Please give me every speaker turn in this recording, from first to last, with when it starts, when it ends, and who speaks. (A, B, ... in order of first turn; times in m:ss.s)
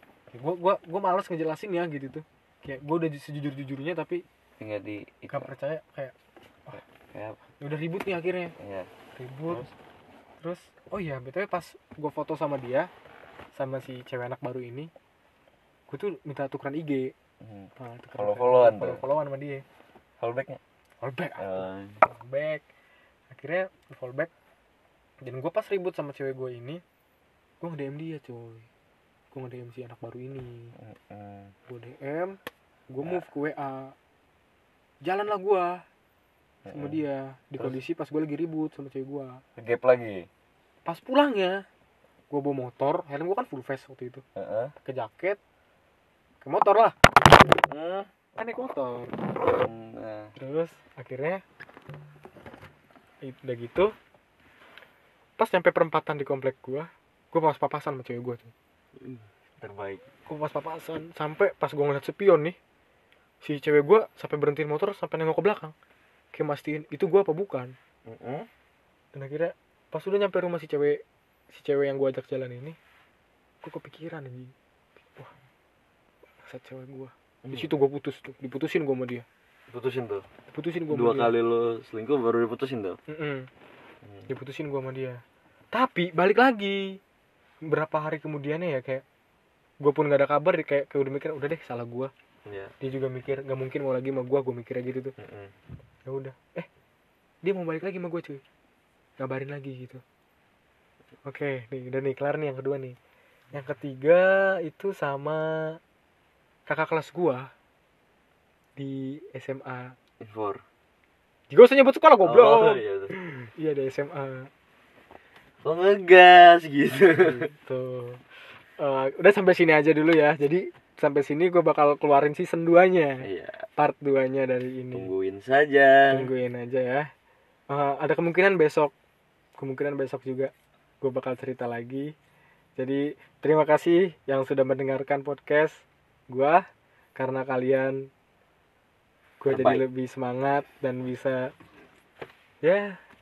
0:00.3-0:04.2 A
0:04.6-0:05.5 B
0:05.3-0:06.1 A
0:07.1-0:07.4 B
0:07.6-0:08.5 A
0:08.6-0:08.9 B
0:09.1-0:09.6 A
0:10.4-0:12.9 A
0:13.5-0:14.9 A
0:15.9-0:17.1 A
0:17.4-0:19.0 B
0:17.8-0:19.6 A
0:20.2-0:20.6 B
0:21.0-0:22.6 A
0:21.4-0:22.0 B
0:23.3-0:24.3 A
0:25.2-0:26.8 A
0:27.6-0:28.7 A
0:29.3-0:30.7 A
0:30.8-0:31.5 B
0:31.7-0:32.4 A
0:32.9-0:33.9 A
0:35.0-0:35.8 A
0:36.6-0:37.0 B
0:36.7-0:39.4 A
0:39.6-0:40.3 B
0:40.8-0:41.6 A
0:42.3-0:44.2 A
0:44.3-0:44.7 B
0:44.8-0:45.4 A
0:46.4-0:46.9 A
0:47.5-0:48.1 B
0:48.4-0:49.1 A
0:49.4-0:50.3 B
0:50.4-0:51.4 A
0:53.2-0:53.9 A
0:55.4-0:58.5 A
0:59.0-1:00.0 B
1:00.3-1:02.6 A
1:03.4-1:05.7 A
1:06.3-1:07.8 A
1:08.0-1:08.5 B
1:09.1-1:12.8 A
1:13.6-1:14.5 A
1:16.4-1:19.2 A
1:17.4-1:17.7 B
1:19.7-1:20.2 B
1:20.5-1:21.3 A
1:20.9-1:23.0 B
1:23.1-1:23.5 A
1:24.0-1:24.3 B
1:24.3-1:27.0 A
1:27.6-1:29.0 A
1:29.8-1:32.1 A
1:32.4-1:32.7 B
1:32.8-1:35.1 A
1:35.2-1:35.5 B
1:36.0-1:36.7 A
1:37.4-1:38.4 A
1:39.2-1:40.0 A
1:41.2-1:43.0 A
1:43.5-1:45.8 A
1:46.7-1:47.5 A
1:48.8-1:49.9 A
1:50.2-1:50.6 B
1:51.5-1:54.5 A
1:52.2-1:53.2 B
1:55.6-1:57.5 B
1:57.2-2:03.2 A
2:03.2-2:03.6 B
2:03.8-2:05.1 A
2:04.9-2:06.3 B
2:06.1-2:07.1 A
2:07.7-2:08.9 A
2:09.6-2:12.1 A
2:12.8-2:18.1 A
2:19.4-2:21.5 A
2:19.5-2:19.8 B
2:22.6-2:23.0 A